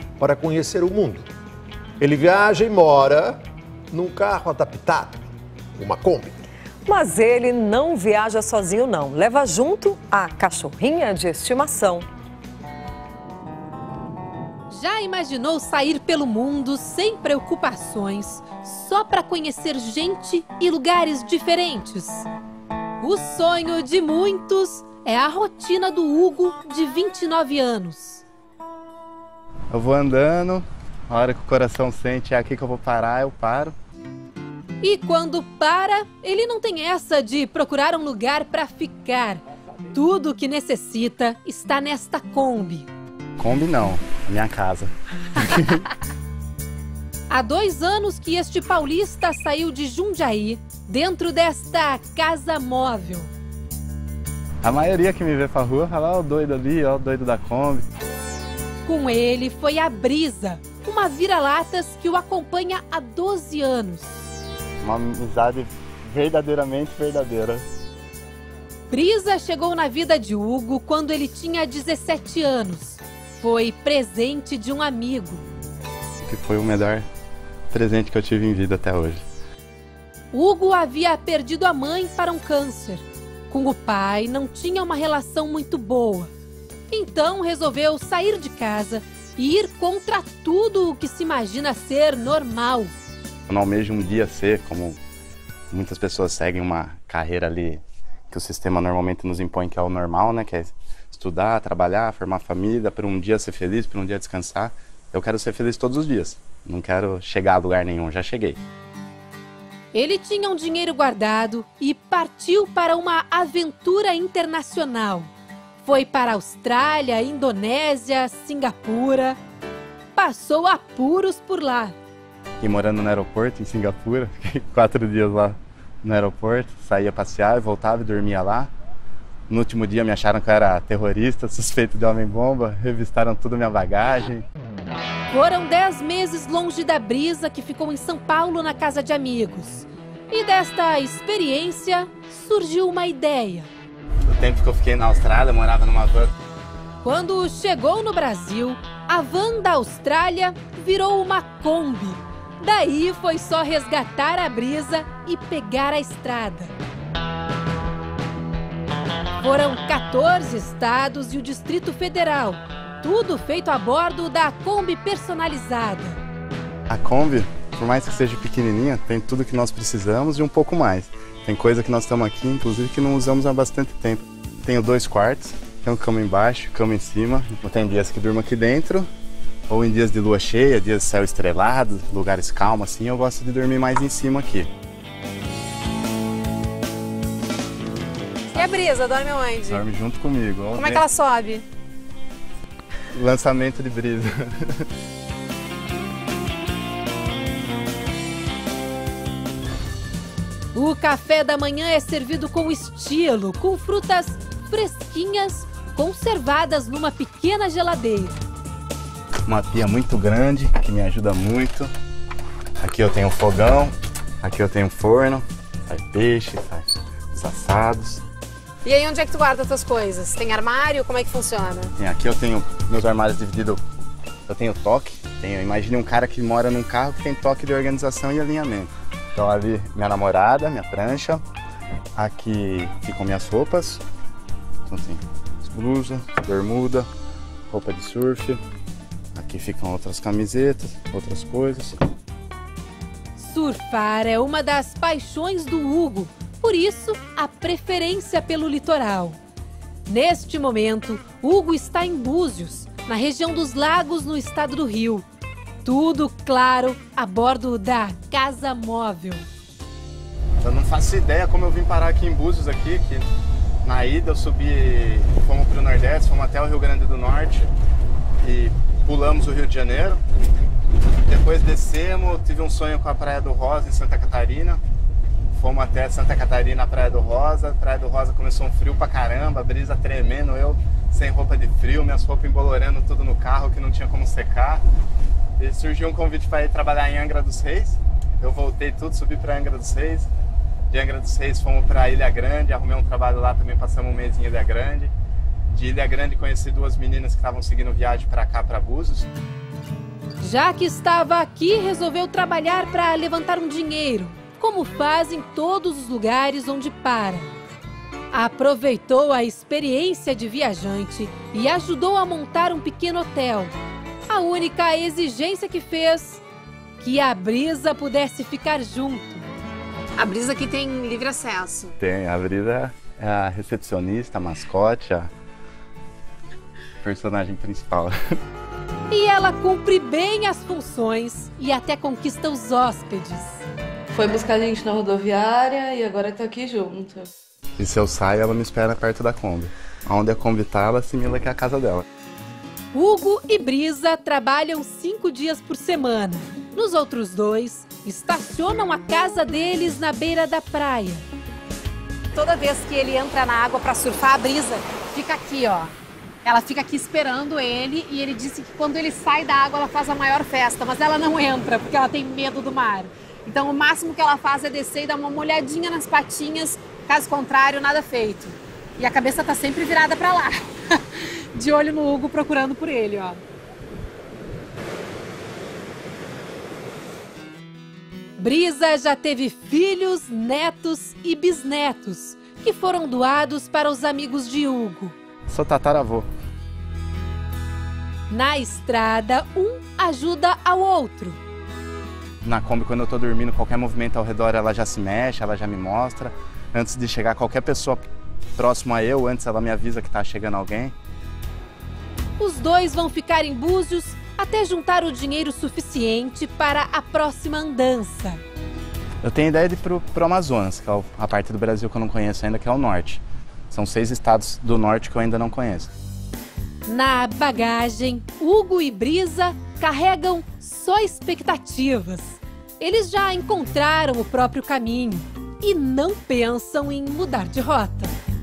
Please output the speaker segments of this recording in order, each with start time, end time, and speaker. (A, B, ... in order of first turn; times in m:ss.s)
0:00.2-0:01.3 A
0:02.0-0:03.4 A
0:03.9-0:05.2 A
0:05.8-0:06.4 A
0:06.8-0:12.1 B
0:14.7-0:22.2 C
0:23.0-0:28.2 C
0:29.7-0:33.7 D
0:34.8-0:42.9 C
0:43.4-0:45.9 D
0:47.3-0:53.3 C
0:54.6-0:57.8 D
0:58.8-1:04.1 C
1:04.8-1:07.6 D
1:08.9-1:15.4 C
1:16.2-1:17.0 D
1:17.7-1:19.2 D
1:20.3-1:26.3 C
1:26.9-1:32.9 C
1:33.5-1:35.0 D
1:35.7-1:48.6 D
1:49.9-1:59.4 C
2:00.1-2:02.0 C
2:02.6-2:08.7 D
2:09.5-2:14.4 D
2:15.3-2:23.7 C
2:24.2-2:26.3 D
2:27.0-2:36.7 C
2:39.4-2:46.2 C
2:46.9-2:59.1 D
2:59.7-3:04.7 D
3:08.5-3:09.8 E
3:09.6-3:11.0 D
3:10.8-3:11.6 E
3:13.1-3:14.9 D
3:20.7-3:28.4 C
3:29.4-3:31.9 D
3:32.8-3:38.2 D
3:38.8-3:41.9 E
3:42.0-3:43.8 D
3:44.5-3:51.4 D
3:52.2-3:54.0 D
3:54.8-3:57.1 D
3:57.7-3:58.6 D
3:59.3-4:02.0 D
4:03.4-4:09.4 C
4:10.1-4:15.2 C
4:15.8-4:19.4 C
4:20.6-4:23.3 D
4:23.8-4:27.7 D
4:28.4-4:30.2 D
4:31.2-4:34.8 D
4:35.5-4:44.8 D
4:45.6-4:50.3 D
4:50.9-4:55.1 D
4:55.7-4:59.3 D
5:00.4-5:07.5 C
5:08.3-5:16.4 C
5:17.0-5:19.5 C
5:20.2-5:22.0 E
5:22.0-5:25.3 D
5:27.0-5:28.2 D
5:29.1-5:33.6 C
5:34.1-5:37.3 F
5:37.8-5:42.0 D
5:42.9-5:51.2 C
5:52.3-5:55.9 E
5:56.4-6:13.4 E
6:18.4-6:25.2 C
6:25.5-6:26.3 D
6:28.3-6:31.4 C
6:32.4-6:38.0 D
6:38.6-6:40.9 D
6:42.4-6:48.4 C
6:49.2-6:55.9 D
6:56.8-7:08.1 C